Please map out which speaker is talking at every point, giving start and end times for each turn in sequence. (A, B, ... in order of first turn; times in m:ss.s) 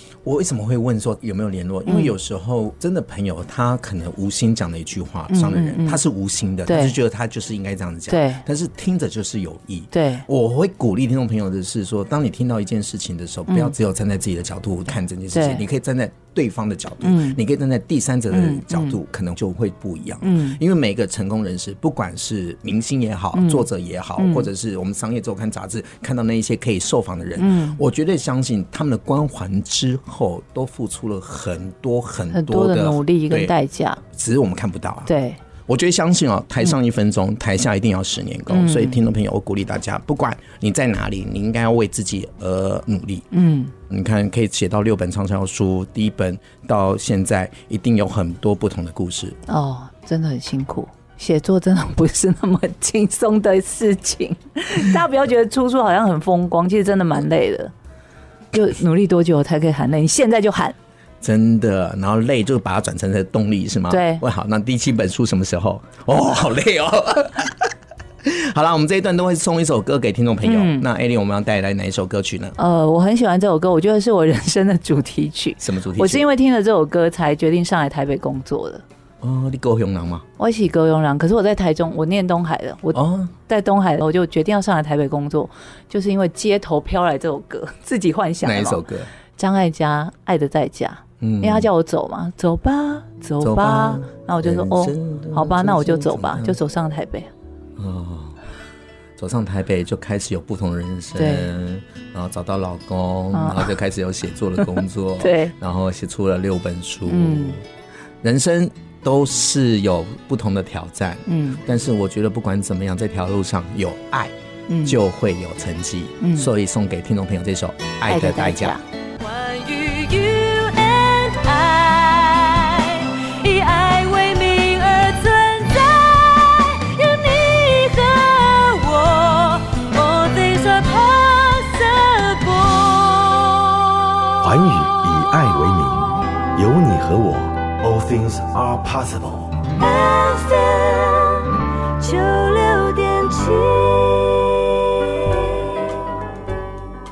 0:00.2-0:33.5 A
0:01.9-0:02.1 B
0:05.3-0:06.0 B
0:06.7-0:06.9 B
0:08.1-0:08.4 B
0:09.9-0:10.2 B
0:15.3-0:15.6 B
0:17.0-0:17.4 B
0:18.3-0:19.0 B
0:20.2-0:20.6 B
0:23.3-0:23.6 B
0:24.2-0:24.5 B
0:27.4-0:27.8 B
0:32.3-0:34.0 B
0:34.0-0:35.1 A
0:35.1-0:35.4 B
0:35.7-0:43.2 A
0:38.5-0:39.0 B
0:43.3-0:43.7 B
0:43.9-0:49.4 A
0:49.5-0:57.7 B
0:58.5-1:00.7 B
1:01.2-1:07.7 A
1:03.9-1:04.2 B
1:08.2-1:12.5 A
1:10.4-1:10.8 B
1:12.6-1:18.8 B
1:15.6-1:16.2 A
1:19.2-1:20.2 A
1:20.4-1:28.8 B
1:22.9-1:23.3 A
1:28.4-1:29.1 A
1:29.4-1:37.3 B
1:31.2-1:31.7 A
1:33.4-1:36.6 A
1:37.8-1:38.4 A
1:39.2-1:47.6 A
1:41.2-1:41.5 B
1:43.3-1:43.7 B
1:45.2-1:45.5 B
1:47.1-1:47.6 B
1:48.2-1:54.3 A
1:51.3-1:51.6 B
1:54.7-1:55.0 B
1:54.8-1:58.8 A
1:56.2-1:56.5 B
1:58.1-1:58.8 B
1:59.2-2:13.7 C
2:14.4-2:19.6 D
2:19.7-2:25.5 C